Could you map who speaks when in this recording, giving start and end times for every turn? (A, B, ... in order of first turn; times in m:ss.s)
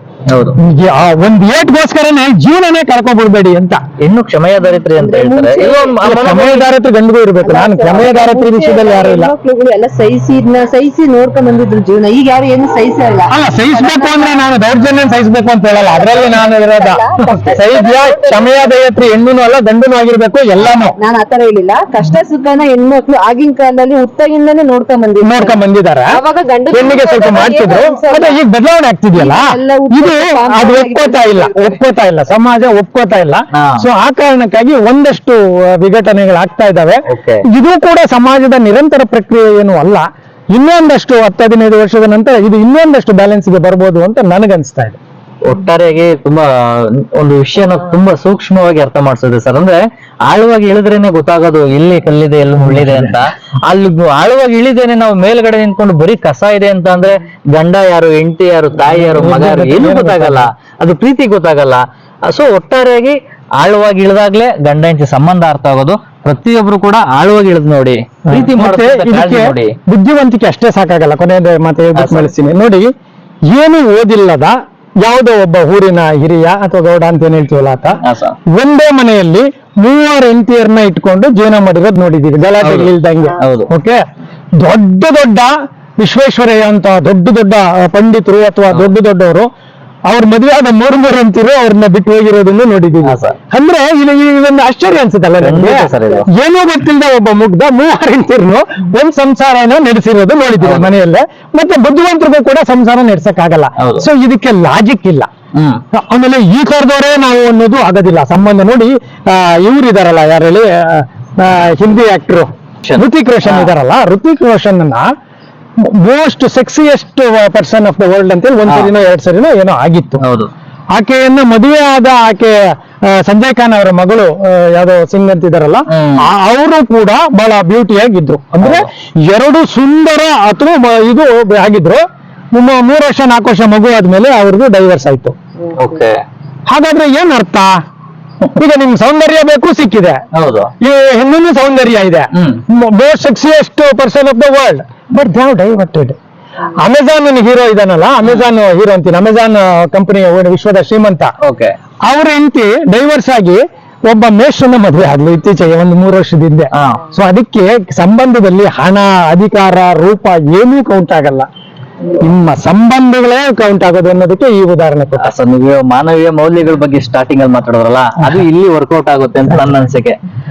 0:00.3-0:00.6 A
0:00.6-0:03.8 B
0:04.0-0:06.7 A
0:04.8-0:06.0 C
0:06.0-0:09.3 B
0:07.4-0:14.4 C
0:13.3-0:21.0 B
0:15.8-0:18.7 C
0:20.6-0:28.4 C
0:25.2-0:26.2 B
0:26.7-0:45.0 B
0:29.1-0:31.8 C
0:33.5-0:33.8 A
0:37.1-0:37.4 A
0:45.4-1:09.8 A
0:52.7-0:53.2 B
0:58.8-1:00.5 B
1:08.3-1:12.9 B
1:12.0-1:12.3 A
1:13.5-1:18.0 B
1:18.0-1:18.4 A
1:18.5-1:24.0 B
1:22.6-1:23.7 A
1:24.6-1:29.5 B
1:30.1-1:45.3 B
1:33.0-1:33.4 A
1:35.4-1:36.3 A
1:40.6-1:40.9 A
1:43.8-1:44.1 A
1:45.6-1:45.8 A
1:45.9-1:55.0 B
1:52.8-1:53.7 A
1:56.0-2:00.2 B
2:00.2-2:00.5 A
2:01.0-2:02.6 B
2:03.1-2:12.0 B
2:05.9-2:06.3 A
2:08.6-2:08.9 A
2:12.6-2:15.4 B
2:15.8-2:16.2 A
2:16.7-2:17.7 B
2:18.5-2:20.2 B
2:20.3-2:20.7 A
2:20.8-2:26.2 B
2:22.3-2:22.6 A
2:26.8-2:31.3 B
2:31.4-2:31.7 A
2:32.1-2:41.5 B
2:36.7-2:37.1 A
2:42.2-2:45.4 B
2:45.2-2:50.2 A